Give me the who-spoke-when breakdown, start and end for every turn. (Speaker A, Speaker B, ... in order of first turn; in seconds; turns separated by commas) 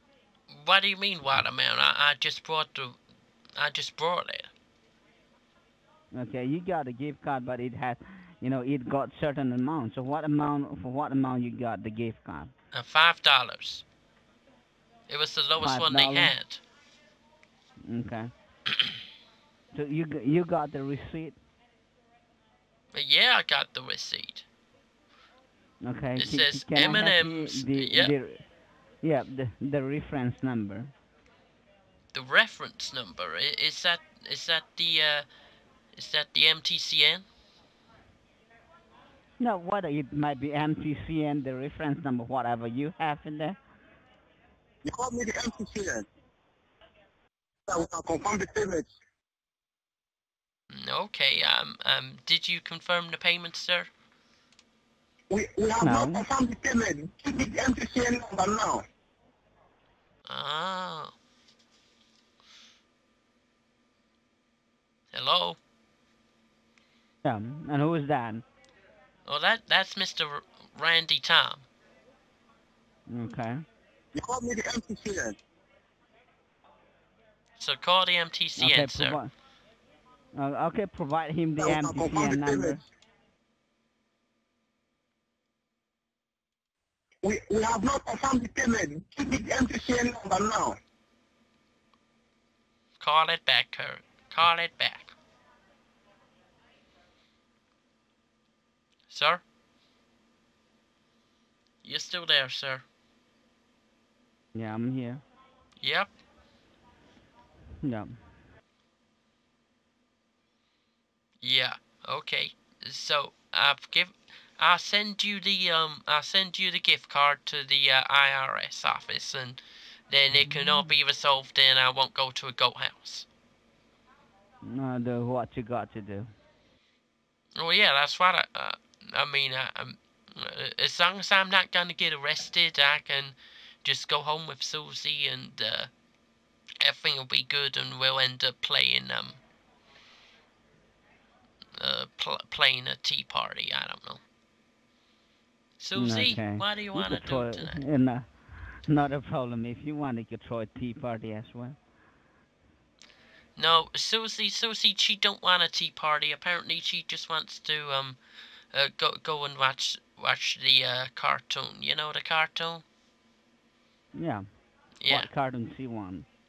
Speaker A: 0.5-3.0, Speaker A: 3.5-4.5, Speaker B: 6.1-12.5, Speaker A: 12.7-13.8, Speaker A: 15.1-16.6, Speaker B: 15.6-16.4, Speaker B: 17.8-18.3, Speaker B: 19.7-21.4, Speaker A: 22.9-24.4, Speaker B: 25.8-28.4, Speaker A: 26.2-28.1, Speaker B: 29.0-30.9, Speaker A: 32.1-35.2, Speaker A: 35.9-37.2, Speaker B: 39.4-43.6, Speaker C: 44.8-46.0, Speaker C: 47.7-48.9, Speaker A: 50.7-53.9, Speaker C: 55.3-58.8, Speaker B: 55.8-56.2, Speaker A: 60.2-61.1, Speaker A: 65.1-65.6, Speaker B: 67.2-68.4, Speaker A: 69.2-71.7, Speaker B: 73.1-73.6, Speaker C: 74.1-75.3, Speaker A: 77.6-79.2, Speaker B: 78.6-79.3, Speaker B: 80.3-82.8, Speaker C: 81.6-82.8, Speaker C: 87.2-90.8, Speaker A: 93.0-95.1, Speaker A: 99.1-99.4, Speaker A: 101.8-102.8, Speaker B: 104.5-105.2, Speaker A: 105.8-106.1, Speaker B: 107.8-108.1, Speaker A: 111.4-123.2, Speaker B: 120.3-120.9, Speaker B: 124.6-126.3, Speaker A: 127.5-135.9, Speaker A: 136.8-139.4, Speaker A: 141.8-144.2, Speaker A: 145.8-147.8, Speaker B: 145.9-148.3, Speaker B: 148.8-151.8, Speaker A: 153.6-158.2, Speaker A: 158.7-162.8, Speaker B: 164.1-164.4, Speaker A: 165.0-165.3, Speaker B: 165.1-166.2